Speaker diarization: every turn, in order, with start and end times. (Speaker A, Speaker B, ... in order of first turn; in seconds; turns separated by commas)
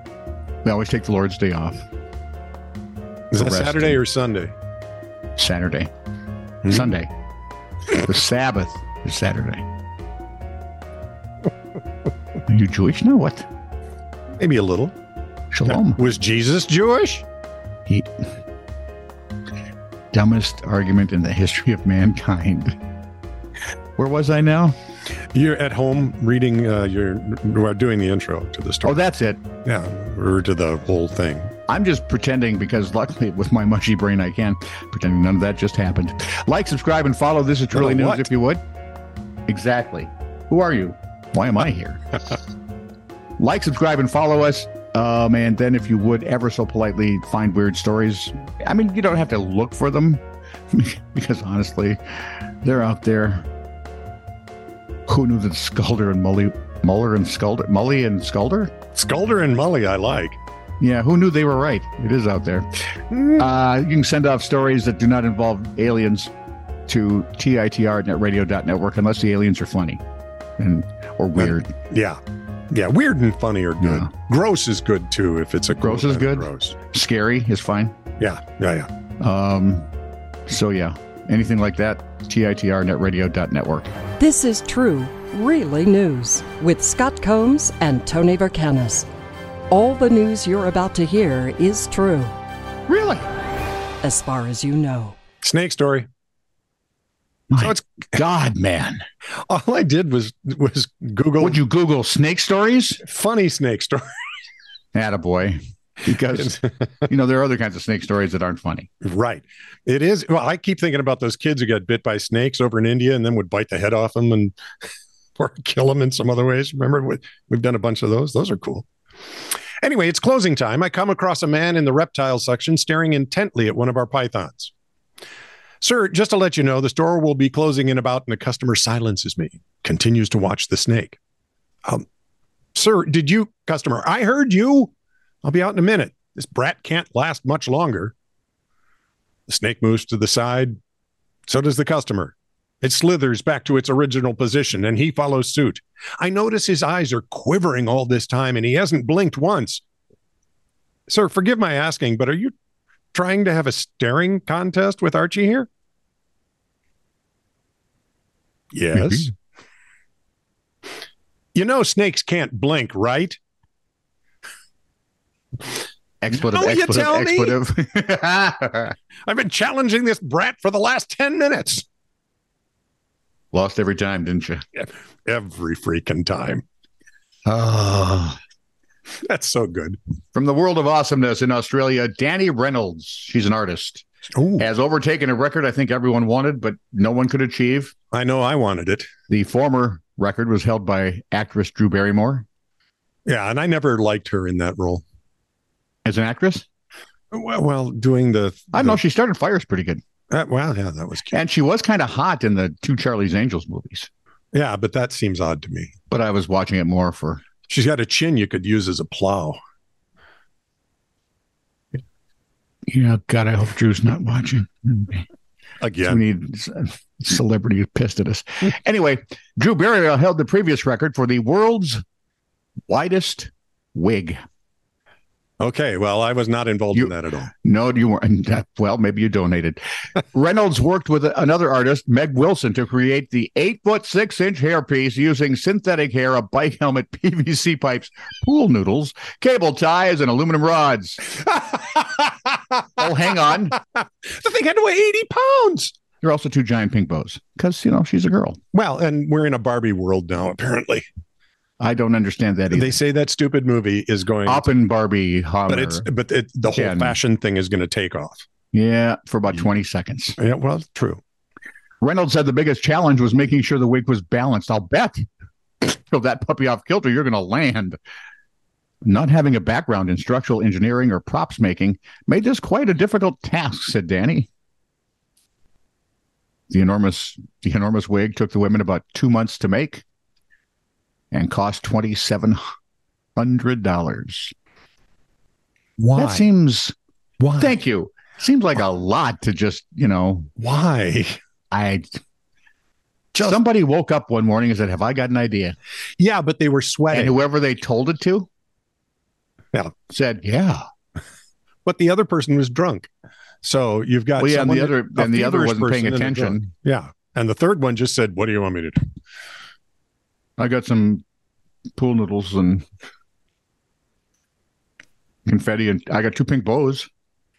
Speaker A: 0.6-1.8, Speaker B: 3.3-4.5, Speaker A: 3.3-4.0, Speaker A: 5.4-5.9, Speaker B: 6.6-6.9, Speaker A: 6.7-7.1, Speaker A: 7.9-9.6, Speaker A: 12.5-13.4, Speaker B: 14.4-14.9, Speaker A: 15.5-16.0, Speaker B: 15.7-17.2, Speaker A: 17.9-18.3, Speaker A: 20.1-22.8, Speaker A: 24.0-24.8, Speaker B: 25.3-29.0, Speaker A: 28.8-29.4, Speaker B: 29.6-31.5, Speaker A: 31.7-38.6, Speaker B: 37.7-38.3, Speaker A: 39.5-42.2, Speaker A: 43.4-53.5, Speaker A: 55.1-58.7, Speaker B: 58.9-60.4, Speaker A: 60.8-62.6, Speaker B: 63.1-63.4, Speaker A: 63.3-66.3, Speaker A: 66.9-70.0, Speaker A: 70.6-71.7, Speaker B: 71.4-72.2, Speaker B: 72.7-76.7, Speaker A: 73.8-74.1, Speaker A: 75.8-77.9, Speaker B: 78.2-78.9, Speaker A: 79.2-79.9, Speaker A: 80.5-83.9, Speaker C: 84.2-89.1, Speaker C: 89.7-92.3, Speaker A: 92.9-93.2, Speaker C: 94.0-95.2, Speaker B: 95.4-96.1, Speaker A: 97.5-99.0, Speaker B: 97.6-97.9, Speaker B: 99.5-101.6, Speaker A: 101.4-103.0, Speaker B: 103.0-104.1, Speaker A: 104.9-108.9, Speaker B: 106.3-106.9, Speaker B: 109.0-114.5, Speaker B: 115.4-118.9, Speaker B: 119.8-124.7, Speaker B: 125.8-131.2, Speaker B: 132.7-134.9, Speaker B: 135.4-138.1, Speaker B: 139.5-140.8, Speaker B: 141.5-149.8, Speaker B: 151.1-152.5, Speaker B: 153.1-155.7, Speaker B: 158.7-159.3, Speaker A: 158.9-159.3, Speaker B: 161.5-163.4, Speaker A: 166.2-168.9, Speaker B: 166.3-167.6, Speaker B: 169.2-171.8, Speaker A: 173.5-174.6, Speaker B: 174.8-176.6, Speaker A: 177.4-178.4, Speaker B: 179.2-180.0, Speaker A: 180.3-184.0, Speaker B: 184.3-184.7, Speaker A: 184.6-187.9, Speaker B: 188.1-189.1, Speaker A: 189.3-192.4, Speaker B: 193.2-195.0, Speaker A: 196.0-196.6, Speaker B: 197.3-199.0, Speaker A: 198.7-200.0, Speaker B: 200.3-201.4, Speaker A: 201.3-204.1, Speaker B: 204.5-205.9, Speaker A: 206.1-207.4, Speaker B: 207.7-209.6, Speaker A: 212.9-215.2, Speaker B: 215.8-216.2, Speaker A: 216.0-222.0, Speaker A: 222.9-224.4, Speaker B: 225.6-227.5, Speaker A: 226.9-229.8, Speaker A: 230.3-241.3, Speaker B: 241.7-242.3, Speaker A: 242.9-243.8, Speaker B: 243.8-245.9, Speaker A: 246.2-248.6, Speaker B: 248.7-251.1, Speaker A: 251.8-253.0, Speaker B: 252.7-254.7, Speaker A: 254.4-256.1, Speaker B: 255.7-258.4, Speaker A: 256.7-257.1, Speaker A: 258.7-260.4, Speaker B: 260.4-261.2, Speaker A: 262.0-265.3, Speaker A: 265.8-268.0, Speaker A: 269.0-274.5, Speaker A: 276.7-280.0, Speaker A: 281.3-282.6, Speaker A: 283.4-284.5, Speaker B: 286.0-286.5, Speaker A: 286.1-286.9, Speaker B: 287.4-287.8, Speaker A: 287.6-290.5, Speaker B: 290.6-291.4, Speaker A: 291.7-292.2, Speaker A: 293.4-295.7, Speaker B: 296.2-297.4, Speaker A: 297.1-298.5, Speaker A: 300.1-300.8, Speaker B: 301.8-303.1, Speaker B: 303.6-309.0, Speaker A: 304.4-306.7, Speaker A: 310.6-311.2, Speaker A: 312.0-312.8, Speaker A: 315.4-317.1